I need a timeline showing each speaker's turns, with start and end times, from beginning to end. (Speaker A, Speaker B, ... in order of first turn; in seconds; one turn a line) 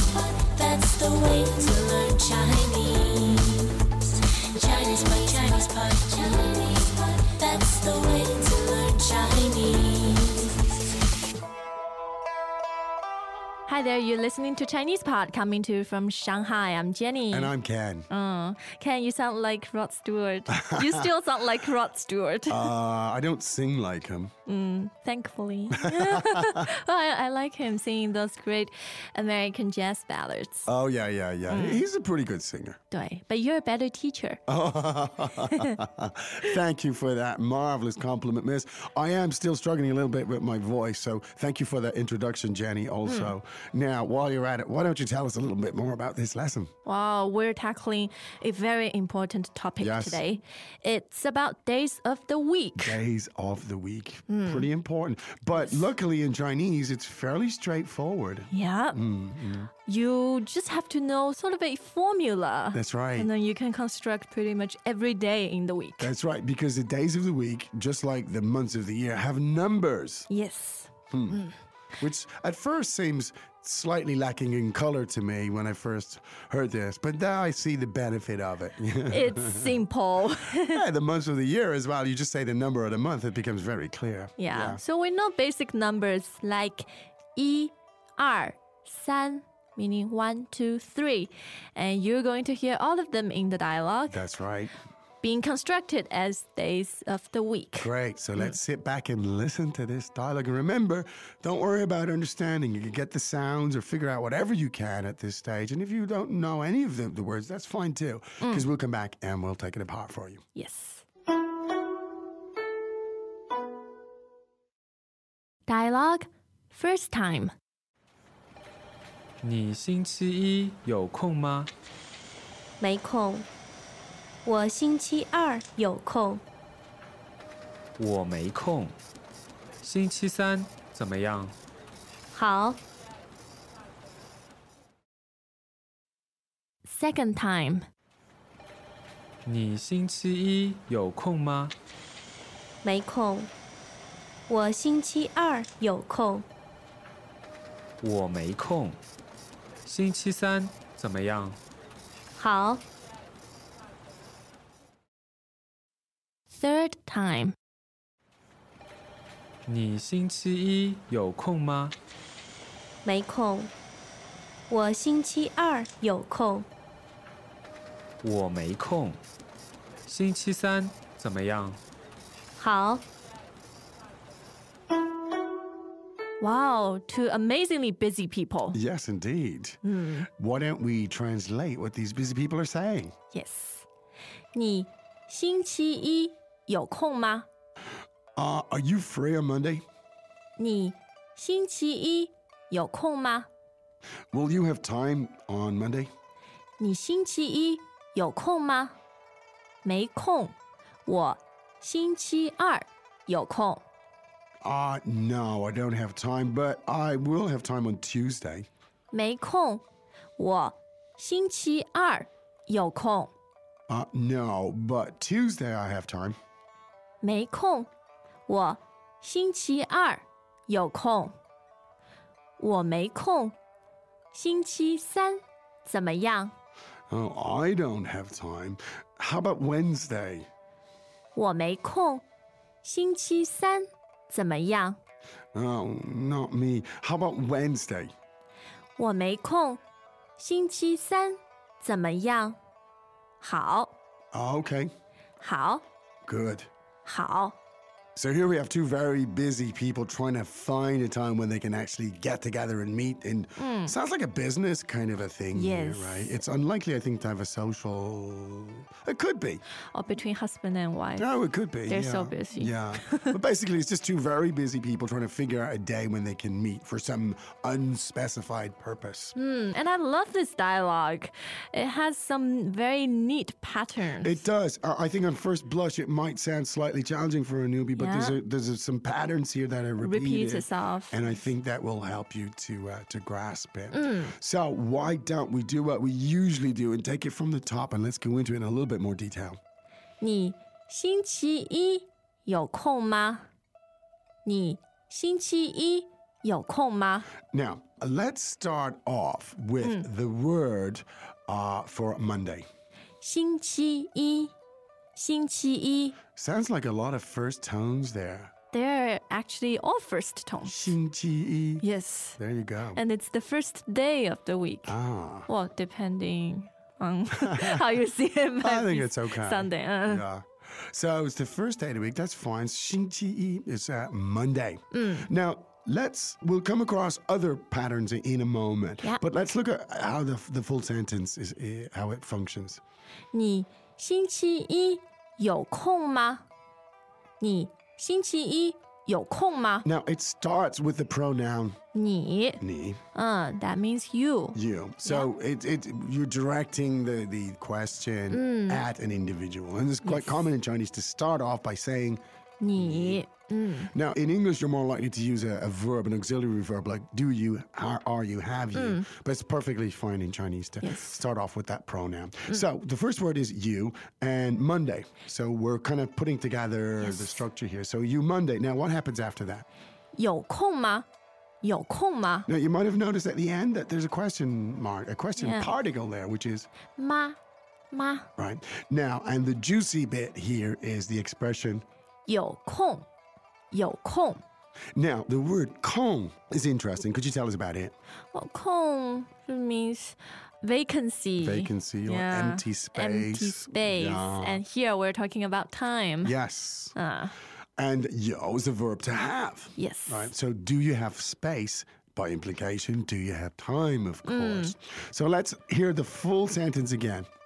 Speaker A: 0.5-3.6
Speaker A: 4.6-9.8
Speaker B: 13.7-17.5
Speaker C: 17.3-18.1
Speaker B: 18.1-22.7
Speaker C: 20.5-21.1
Speaker C: 22.5-24.3
Speaker B: 24.5-30.7
Speaker C: 25.9-26.4
Speaker C: 30.7-32.8
Speaker B: 31.5-31.9
Speaker B: 32.9-34.4
Speaker C: 34.5-46.7
Speaker B: 43.1-43.3
Speaker B: 46.9-53.0
Speaker C: 49.8-50.2
Speaker C: 52.8-59.7
Speaker B: 54.3-54.7
Speaker B: 55.5-55.9
Speaker B: 58.5-59.0
Speaker B: 59.8-66.1
Speaker C: 62.7-63.3
Speaker C: 66.0-70.3
Speaker B: 70.3-71.5
Speaker C: 71.1-71.5
Speaker C: 72.0-79.8
Speaker B: 79.1-80.8
Speaker C: 80.6-84.8
Speaker B: 84.4-94.2
Speaker C: 94.1-94.8
Speaker B: 95.2-97.9
Speaker C: 97.8-110.4
Speaker B: 108.4-108.7
Speaker B: 110.5-111.0
Speaker B: 115.7-117.5
Speaker D: 119.4-121.7
Speaker E: 122.8-123.5
Speaker E: 124.5-126.4
Speaker D: 128.0-129.0
Speaker D: 129.8-131.6
Speaker E: 132.3-132.8
Speaker B: 136.8-137.9
Speaker D: 139.4-141.8
Speaker E: 142.8-143.5
Speaker E: 144.5-146.5
Speaker D: 148.0-149.0
Speaker D: 149.9-151.6
Speaker E: 152.4-152.8
Speaker B: 156.5-157.6
Speaker D: 159.7-161.9
Speaker E: 163.1-163.7
Speaker E: 164.7-166.7
Speaker D: 168.2-169.2
Speaker D: 170.1-171.8
Speaker E: 172.6-173.1
Speaker B: 176.4-178.8
Speaker C: 178.7-179.8
Speaker B: 179.8-180.3
Speaker C: 180.4-183.2
Speaker B: 183.3-183.9
Speaker B: 184.5-187.5
Speaker C: 188.4-189.8
Speaker B: 190.6-193.5
Speaker C: 194.3-196.1
Speaker B: 196.8-199.0
Speaker B: 199.8-200.6
Speaker B: 201.1-203.8
Speaker C: 204.6-208.7
Speaker B: 209.1-209.8
Speaker B: 210.4-213.3
Speaker C: 213.9-216.4
Speaker B: 217.2-217.9
Speaker B: 218.5-221.3
Speaker B: 222.6-223.6
Speaker B: 224.3-226.5
Speaker C: 227.1-230.5
Speaker B: 231.3-232.2
Speaker B: 232.8-235.0
Speaker C: 235.5-238.1
Speaker B: 239.0-239.8
Speaker B: 240.4-242.6
Speaker B: 243.4-243.9
Speaker C: 244.3-244.9
Speaker B: 245.4-245.8
Speaker C: 246.3-246.7
Speaker B: 247.1-247.6
Speaker C: 248.2-259.6
Speaker B: 253.6-253.9
Speaker B: 255.5-256.4
Speaker B: 259.9-261.3
Speaker C: 261.2-269.4
Speaker B: 261.8-263.4
Speaker B: 269.4-274.4
Speaker C: 274.2-289.6
Speaker B: 278.0-278.4
Speaker B: 280.0-281.3
Speaker B: 283.9-284.3
Speaker B: 290.2-293.5
Speaker B: 294.4-297.3
Speaker C: 297.5-302.6
Speaker B: 299.8-300.1
Speaker B: 303.2-304.5
Speaker B: 305.1-306.2
Speaker C: 306.4-308.5
Speaker B: 308.7-311.0
Speaker C: 310.7-311.9
Speaker B: 311.8-312.4
Speaker C: 312.4-313.0
Speaker B: 312.9-315.0
Speaker C: 314.9-315.5
Speaker B: 315.5-320.2
Speaker C: 317.4-317.9
Speaker C: 318.6-332.8
Speaker B: 324.9-325.3
Speaker B: 333.3-336.4
Speaker B: 337.4-339.9
Speaker C: 339.9-341.8
Speaker B: 341.9-342.6
Speaker C: 342.6-343.0
Speaker B: 343.1-345.3
Speaker C: 344.5-352.2
Speaker B: 348.3-348.9
Speaker B: 350.0-350.5
Speaker B: 352.6-353.9
Speaker C: 352.8-353.2
Speaker C: 353.9-369.6
Speaker B: 358.7-359.1
Speaker B: 360.8-361.2
Speaker B: 367.0-367.4
Speaker B: 370.1-371.1
Speaker B: 371.6-372.5
Speaker C: 372.5-376.7
Speaker B: 375.4-375.7
Speaker B: 376.9-377.4
Speaker B: 377.9-378.3
Speaker C: 378.4-381.9
Speaker B: 382.3-383.1
Speaker B: 383.7-384.4
Speaker C: 384.9-387.9
Speaker B: 388.3-396.3
Speaker C: 391.4-394.6
Speaker C: 396.2-397.0
Speaker B: 396.9-397.4
Speaker C: 397.8-407.3
Speaker B: 399.8-400.3
Speaker B: 404.2-404.7